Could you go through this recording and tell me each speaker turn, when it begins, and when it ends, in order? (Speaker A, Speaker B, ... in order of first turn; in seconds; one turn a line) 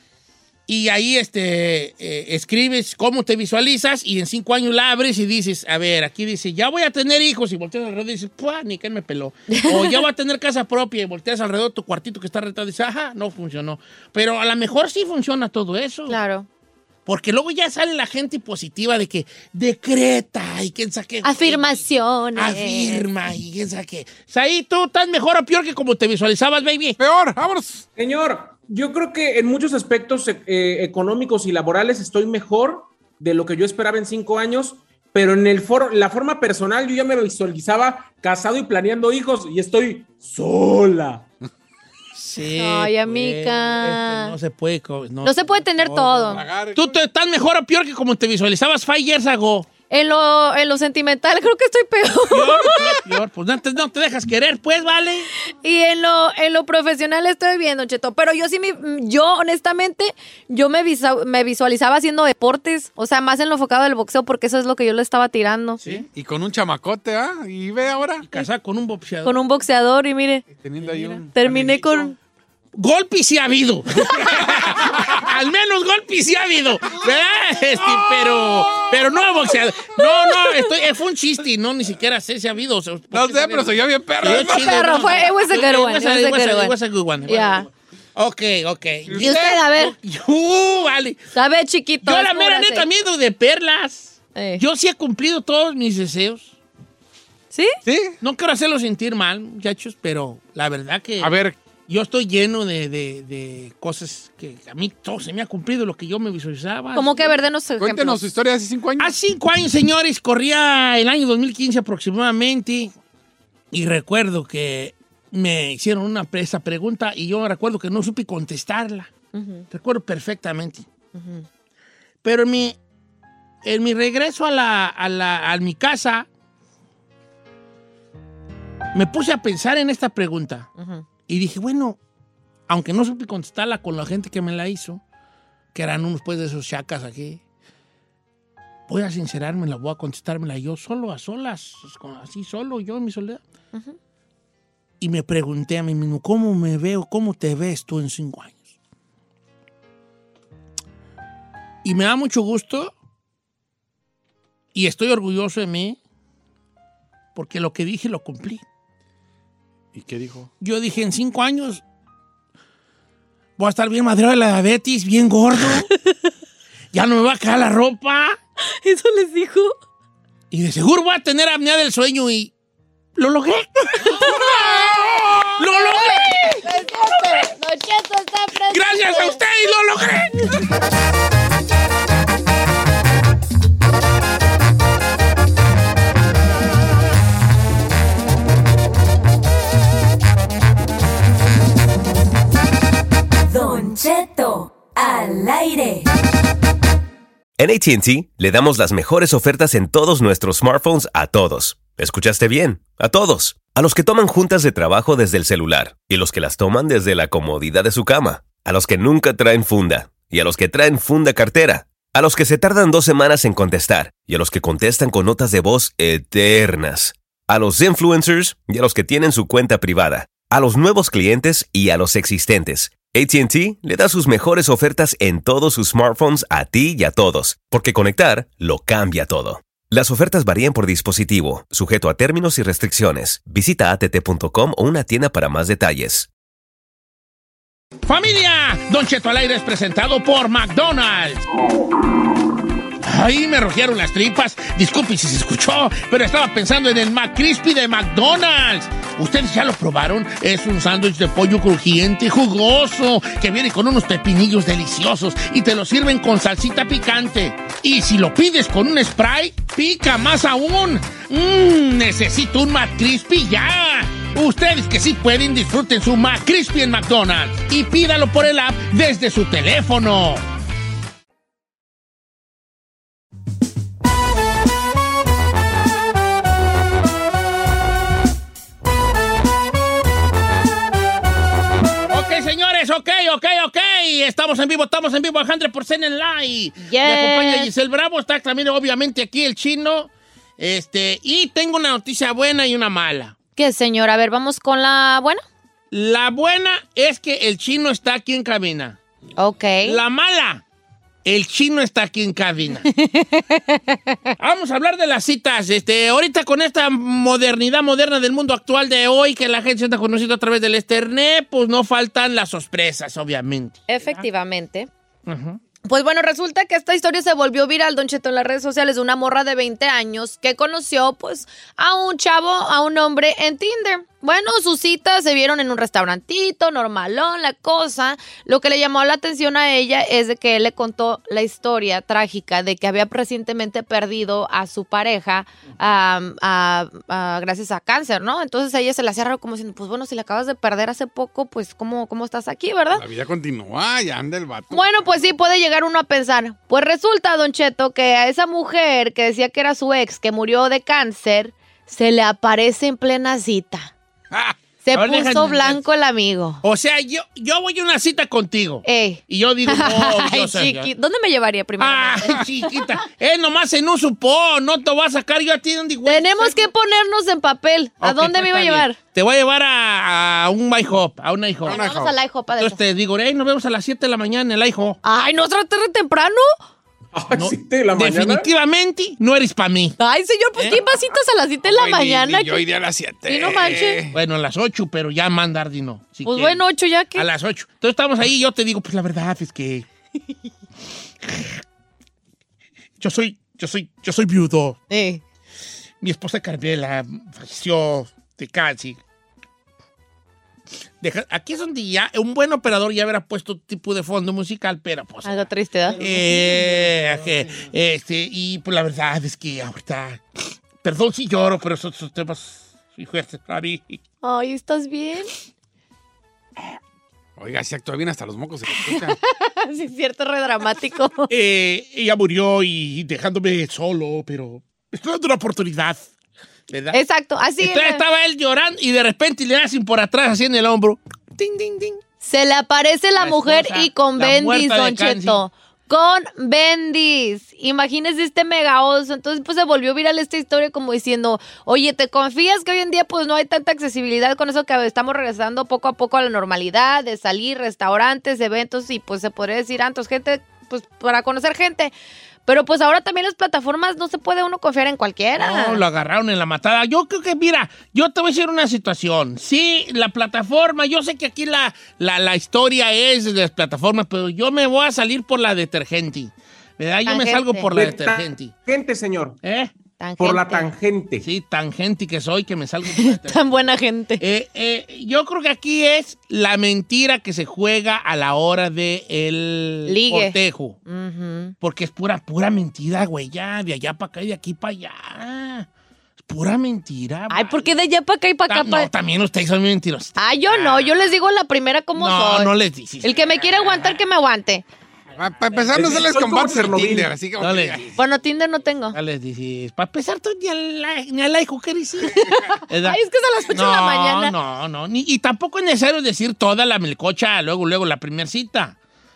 Speaker A: 0.7-16.2
Speaker B: 9.5-10.0
Speaker B: 16.1-16.5
Speaker A: 17.1-27.0
Speaker B: 21.2-23.0
Speaker C: 27.0-27.8
Speaker D: 27.9-41.2
Speaker A: 42.1-49.7
Speaker B: 42.5-44.4
Speaker B: 45.2-46.4
Speaker C: 46.3-46.9
Speaker B: 49.9-53.1
Speaker A: 52.3-55.3
Speaker B: 55.6-65.8
Speaker A: 65.8-66.1
Speaker C: 66.1-68.2
Speaker A: 68.2-69.3
Speaker B: 69.2-70.4
Speaker C: 70.6-71.8
Speaker A: 70.8-72.0
Speaker B: 71.3-72.2
Speaker A: 72.7-91.2
Speaker C: 74.4-75.2
Speaker C: 77.8-78.9
Speaker B: 79.9-80.6
Speaker C: 83.1-85.0
Speaker B: 84.2-86.8
Speaker B: 87.3-87.7
Speaker C: 89.1-89.4
Speaker B: 89.2-89.9
Speaker B: 91.3-92.9
Speaker A: 92.0-96.5
Speaker B: 94.3-94.6
Speaker B: 97.5-97.8
Speaker C: 97.8-98.2
Speaker A: 98.2-101.3
Speaker C: 101.2-101.6
Speaker A: 101.9-107.4
Speaker B: 106.9-108.2
Speaker C: 107.8-109.1
Speaker A: 109.0-112.9
Speaker A: 113.7-119.1
Speaker B: 119.3-119.6
Speaker A: 119.7-120.8
Speaker B: 121.1-121.4
Speaker A: 122.2-122.8
Speaker A: 123.6-126.3
Speaker A: 128.9-130.7
Speaker B: 130.8-131.1
Speaker A: 131.3-132.0
Speaker A: 132.7-135.0
Speaker A: 135.7-137.4
Speaker A: 138.9-143.4
Speaker A: 145.0-148.8
Speaker A: 151.8-152.9
Speaker A: 154.7-156.0
Speaker A: 157.3-158.6
Speaker C: 159.9-160.5
Speaker A: 160.6-161.8
Speaker A: 163.6-165.9
Speaker A: 166.9-168.4
Speaker B: 168.7-169.8
Speaker A: 170.5-172.5
Speaker A: 173.2-174.7
Speaker B: 174.0-179.4
Speaker C: 174.3-175.4
Speaker A: 175.5-177.4
Speaker A: 178.7-180.5
Speaker E: 193.5-196.1
Speaker F: 197.6-236.3
Speaker A: 238.1-241.4
Speaker A: 243.0-270.4
Speaker A: 282.1-293.4
Speaker B: 286.8-287.7
Speaker B: 293.6-295.4
Speaker A: 295.9-299.0
Speaker B: 299.4-300.0
Speaker A: 299.8-300.6
Speaker A: 301.2-302.9
Speaker B: 302.8-304.3
Speaker A: 304.4-314.2
Speaker B: 313.9-314.9
Speaker A: 315.2-315.6
Speaker B: 315.8-343.0
Speaker C: 342.9-344.9
Speaker B: 344.7-353.9
Speaker B: 354.8-356.6
Speaker A: 354.9-355.8
Speaker A: 356.6-360.9
Speaker B: 358.8-362.6
Speaker A: 361.8-366.7
Speaker B: 366.0-369.0
Speaker A: 368.0-371.8
Speaker B: 371.6-372.8
Speaker C: 371.6-372.1
Speaker A: 372.6-375.0
Speaker B: 375.0-376.5
Speaker D: 377.1-378.5
Speaker A: 377.3-380.0
Speaker B: 380.0-382.6
Speaker A: 380.6-380.8
Speaker C: 381.7-384.1
Speaker B: 383.2-384.0
Speaker A: 384.1-389.9
Speaker B: 386.2-387.3
Speaker A: 391.2-391.6
Speaker A: 393.0-394.8
Speaker B: 394.9-395.2
Speaker A: 396.0-399.0
Speaker A: 401.0-410.2
Speaker B: 405.2-406.0
Speaker A: 410.8-414.0
Speaker B: 414.2-415.3
Speaker C: 417.4-419.2
Speaker B: 418.8-421.3
Speaker A: 421.3-426.1
Speaker A: 426.7-427.0
Speaker B: 426.9-428.0
Speaker A: 427.6-432.0
Speaker B: 432.2-451.9
Speaker A: 433.1-435.4
Speaker B: 452.4-455.8
Speaker A: 455.3-468.5
Speaker B: 467.1-467.7
Speaker D: 467.7-469.4
Speaker A: 469.4-469.7
Speaker B: 470.0-470.7
Speaker D: 470.2-471.2
Speaker A: 471.2-473.4
Speaker B: 472.9-474.2
Speaker A: 474.2-480.8
Speaker B: 479.9-481.5
Speaker A: 481.6-485.7
Speaker A: 486.2-487.7
Speaker B: 487.3-488.9
Speaker A: 488.5-491.0
Speaker B: 490.2-494.6
Speaker A: 492.0-494.0
Speaker C: 495.2-497.9
Speaker A: 495.4-496.1
Speaker D: 495.7-497.1
Speaker A: 497.4-497.9
Speaker B: 497.9-499.0
Speaker A: 498.9-508.8
Speaker B: 502.1-504.3